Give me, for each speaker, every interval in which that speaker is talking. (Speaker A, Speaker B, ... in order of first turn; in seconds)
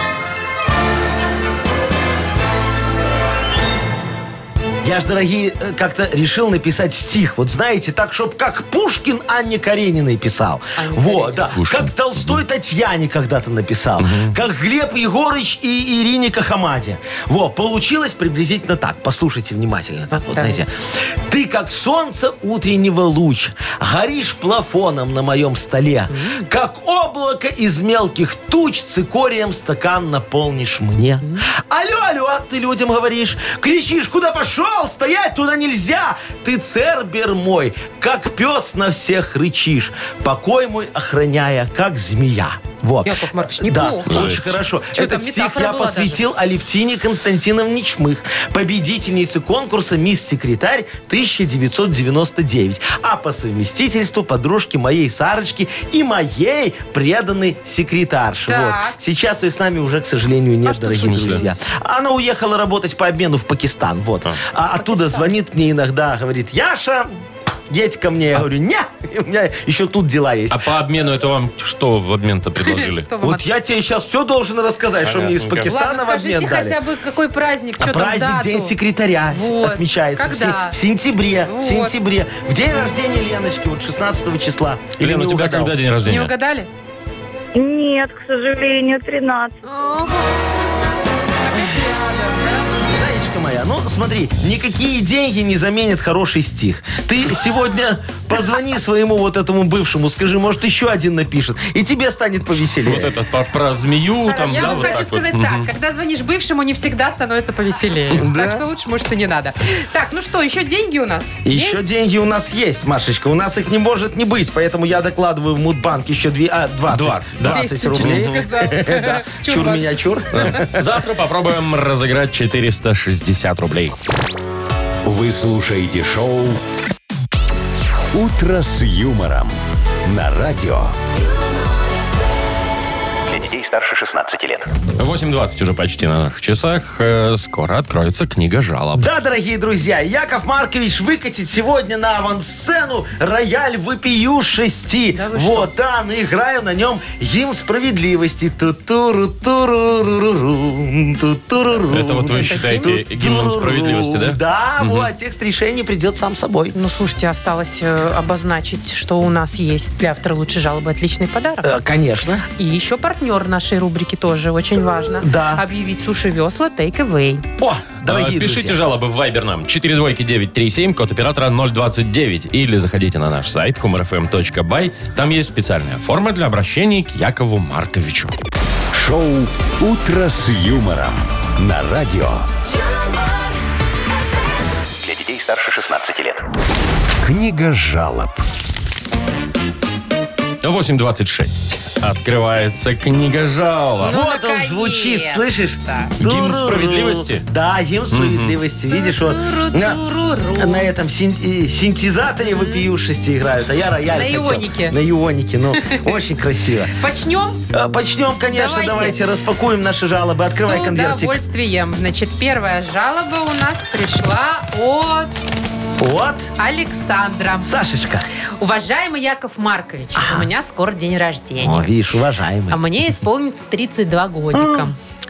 Speaker A: 4.8-67.2, 67.7-70.7, 73.2-76.8, 77.8-85.8, 92.8-103.1, 104.7-105.0, 108.1-108.6, 111.5-120.9, 138.9-156.8, 161.6-162.5, 165.2-165.6, 167.6-168.8, 194.0-200.0, 200.6-206.9, 207.7-211.4, 216.0-216.5, 217.6-218.2, 220.2-220.5, 221.6-222.8, 224.5-224.9
Speaker B: 10.8-11.5, 20.1-20.7, 26.1-26.5, 31.2-31.5, 43.0-44.4, 44.9-46.2, 58.5-59.0, 60.7-61.5, 64.8-65.3, 72.6-73.5, 75.7-78.8, 79.3-80.8, 81.5-82.0, 86.1-86.7, 89.6-90.5, 91.4-92.7, 104.3-111.8, 117.5-119.9, 145.1-145.7, 152.3-152.9, 156.7-161.7, 162.6-167.5, 194.0-196.1, 198.9-200.9, 202.4-202.9, 204.1-205.0, 205.8-206.1, 207.0-207.6, 208.5-209.2, 210.5-215.5, 216.6-217.7, 218.6-221.9, 222.7-225.0
Speaker C: 11.5-12.4, 14.0-14.4, 44.1-44.5, 61.0-61.4, 70.5-73.1, 75.0-75.7, 85.0-86.3, 102.8-105.7, 116.9-118.4, 120.3-124.0, 135.0-139.1, 151.9-155.1, 168.0-178.3, 190.6-194.1, 196.2-197.5, 198.1-198.6
Speaker D: 87.5-89.6
Speaker E: 125.0-126.6, 128.1-130.9, 178.9-182.5, 187.2-188.4
Speaker F: 133.3-134.7, 185.0-186.5